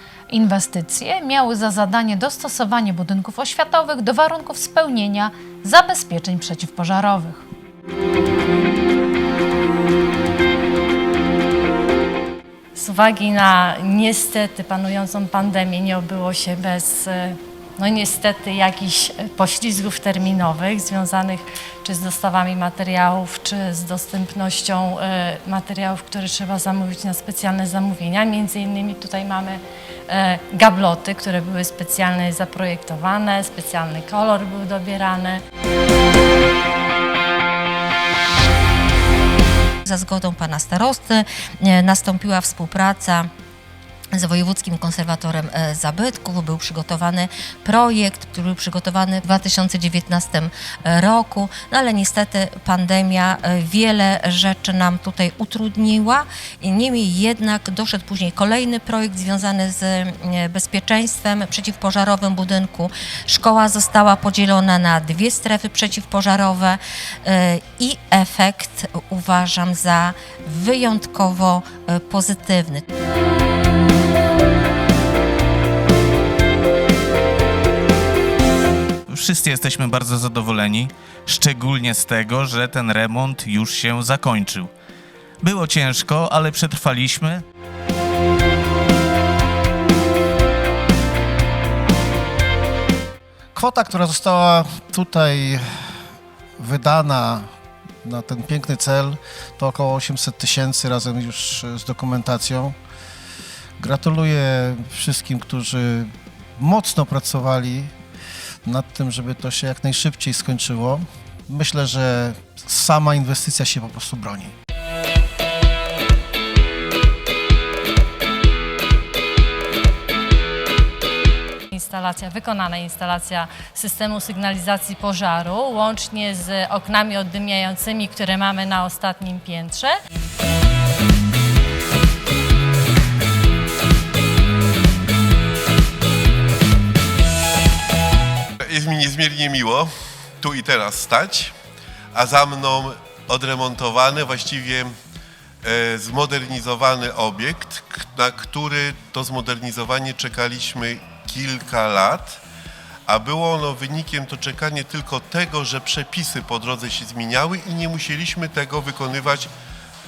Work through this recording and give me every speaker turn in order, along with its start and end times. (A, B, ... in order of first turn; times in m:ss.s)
0:00.3-0:07.5 A
0:12.8-0:35.4 B
0:39.9-0:43.3 C
0:44.2-1:12.8 C
1:19.1-1:24.7 D
1:25.4-1:27.4 D
1:33.5-1:35.9 E
1:36.6-1:37.5 E
1:38.0-1:42.8 E
1:43.8-1:47.9 E
1:48.6-1:54.5 E
2:01.7-2:10.0 B
2:18.7-2:19.9 F
2:20.4-2:21.5 F
2:22.1-2:24.9 F
2:25.6-2:32.4 F
2:33.1-2:39.5 F